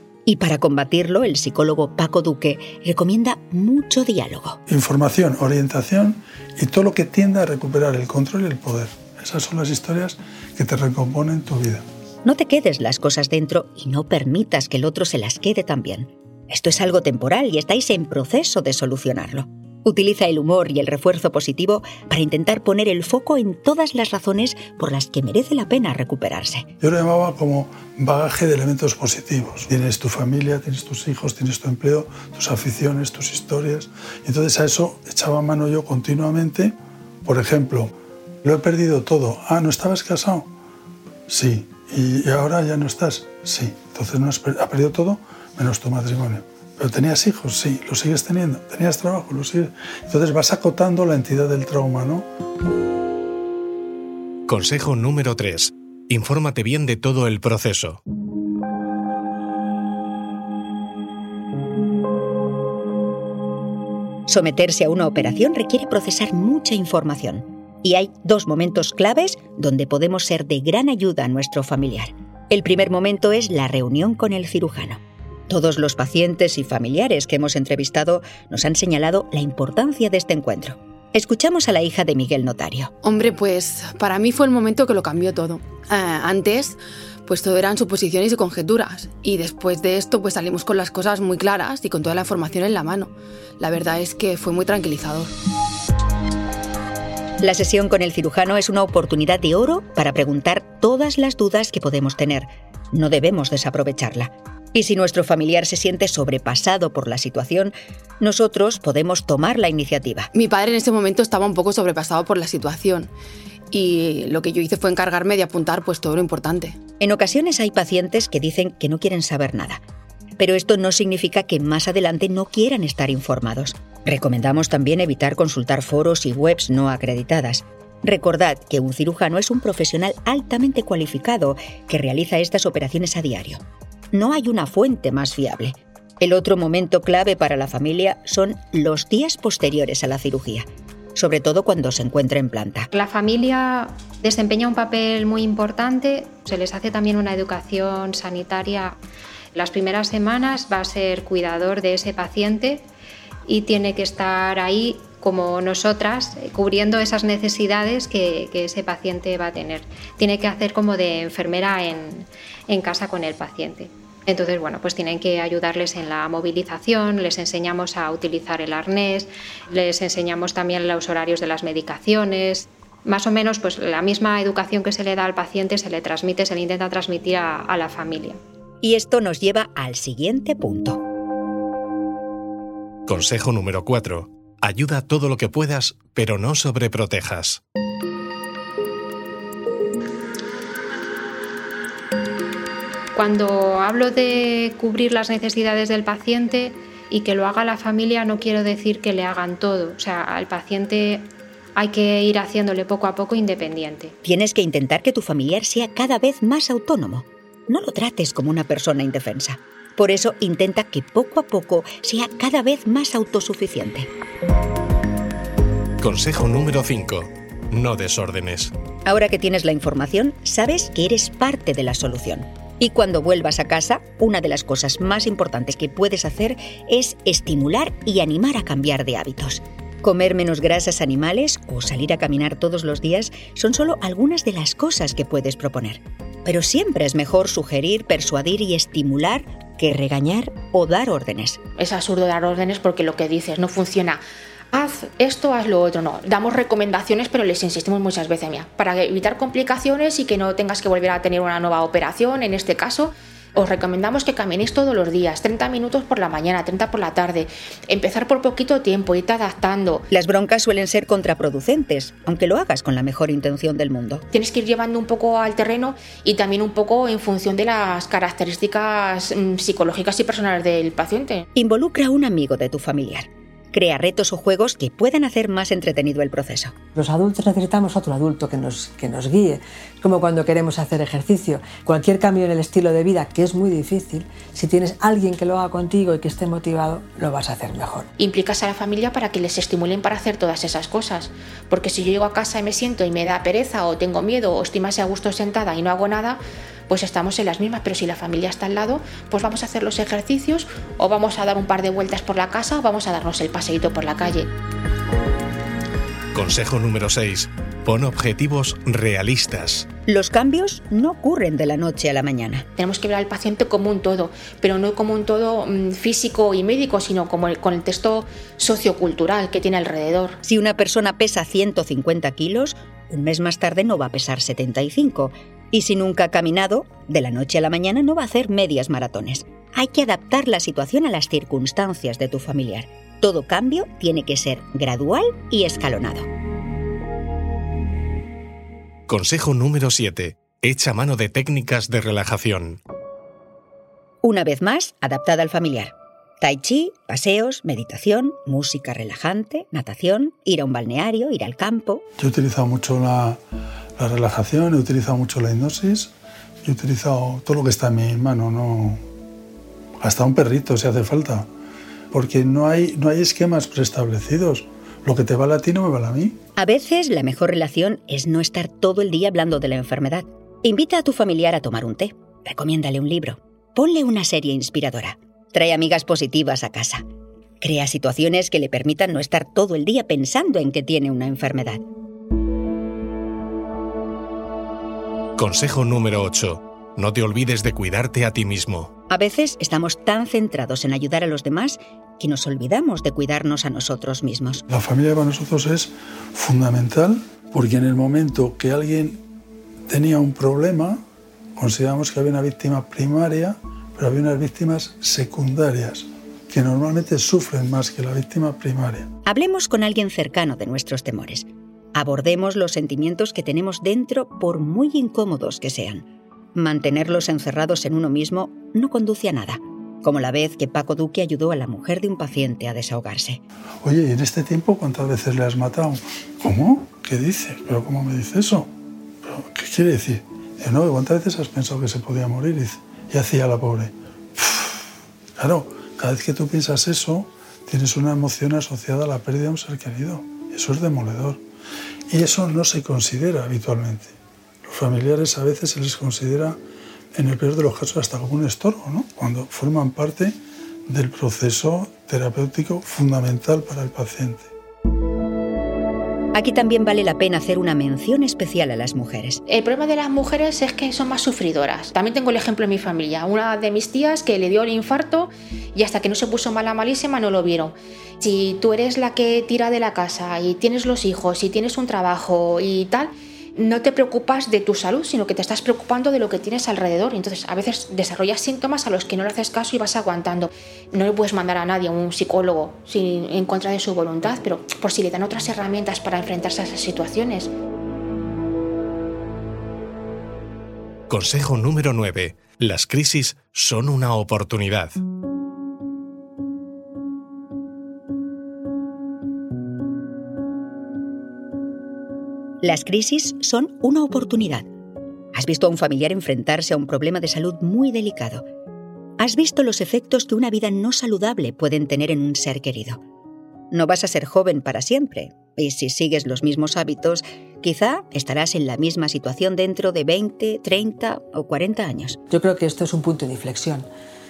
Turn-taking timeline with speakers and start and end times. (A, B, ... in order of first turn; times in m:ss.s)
0:00.3-0:04.6 A
0:04.7-0:11.8 B
0:12.2-0:26.7 A
0:26.8-0:37.9 B
0:38.4-0:40.5 B
0:41.3-0:52.3 B
0:54.5-0:58.0 C
1:04.3-1:22.9 A
1:23.0-1:35.3 D
1:37.4-1:50.3 A
1:50.3-1:53.1 D
1:53.7-1:56.8 D
1:57.0-1:59.8 A
2:00.4-2:22.9 A
2:22.9-2:29.0 E
2:29.5-2:32.8 E
2:33.5-2:58.4 E
2:58.8-3:01.0 A
3:03.1-3:07.6 C
3:13.2-3:24.1 E
3:24.2-3:34.1 A
3:36.0-3:38.7 C
3:39.1-4:01.6 A
4:01.8-4:04.2 F
4:04.7-4:20.1 F
4:20.1-4:24.2 A
4:24.3-4:31.4 F
4:31.6-4:36.8 A
4:37.0-4:48.1 G
4:48.2-5:04.5 F
5:06.3-5:09.9 C
5:10.1-5:12.7 A
5:12.8-5:20.4 F
5:20.4-5:36.3 A
5:39.1-5:42.8 C
5:44.2-5:52.0 A
5:52.2-5:53.4 B
5:54.0-5:56.1 B
5:56.6-5:59.0 B
6:00.0-6:01.5 B
6:02.1-6:06.4 B
6:06.6-6:17.1 A
6:17.6-6:21.8 A
6:25.4-6:28.9 C
6:29.1-6:34.6 A
6:34.7-6:39.2 B
6:39.9-6:41.0 B
6:41.6-6:49.1 B
6:49.3-7:03.4 A
7:03.8-7:08.7 B
7:09.3-7:14.8 B
7:15.4-7:21.4 B
7:22.1-7:24.1 B
7:24.7-7:26.6 B
7:27.2-7:30.4 B
7:30.9-7:34.5 B
7:36.3-7:39.4 A
7:39.5-8:07.5 F
8:11.1-8:15.0 C
8:22.6-8:24.7 A
8:25.3-8:28.4 A
8:29.2-8:33.0 A
8:33.7-8:42.2 A
8:42.3-8:43.9 G